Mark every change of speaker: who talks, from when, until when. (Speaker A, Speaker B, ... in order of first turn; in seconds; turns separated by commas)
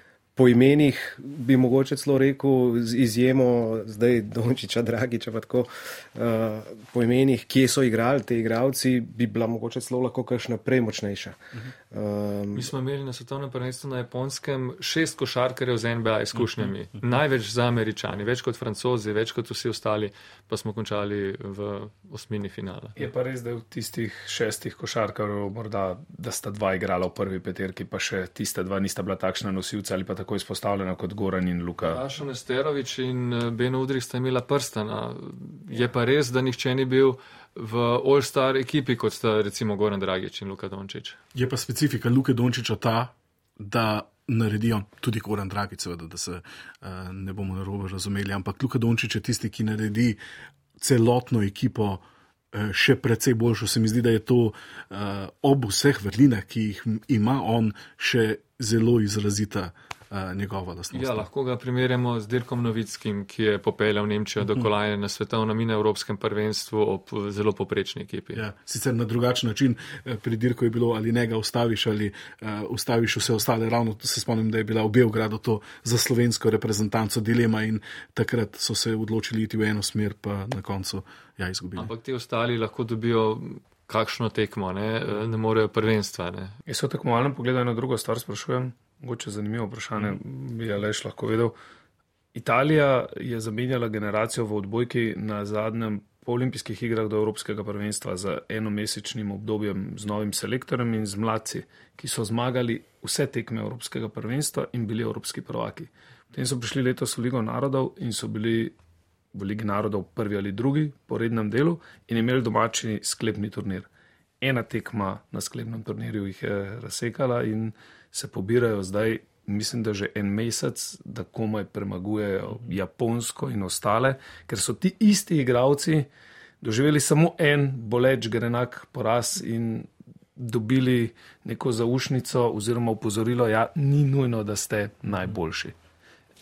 Speaker A: 0.4-11.4, Speaker A: 11.9-12.7, Speaker B: 12.5-23.0, Speaker C: 23.0-32.0, Speaker B: 31.9-41.2, Speaker D: 41.3-50.2, Speaker D: 50.8-61.3, Speaker B: 60.9-68.4, Speaker D: 68.3-81.9, Speaker B: 81.8-86.5, Speaker C: 86.7-91.5, Speaker C: 92.3-108.8, Speaker C: 109.3-113.9, Speaker C: 114.4-126.1, Speaker C: 126.6-135.8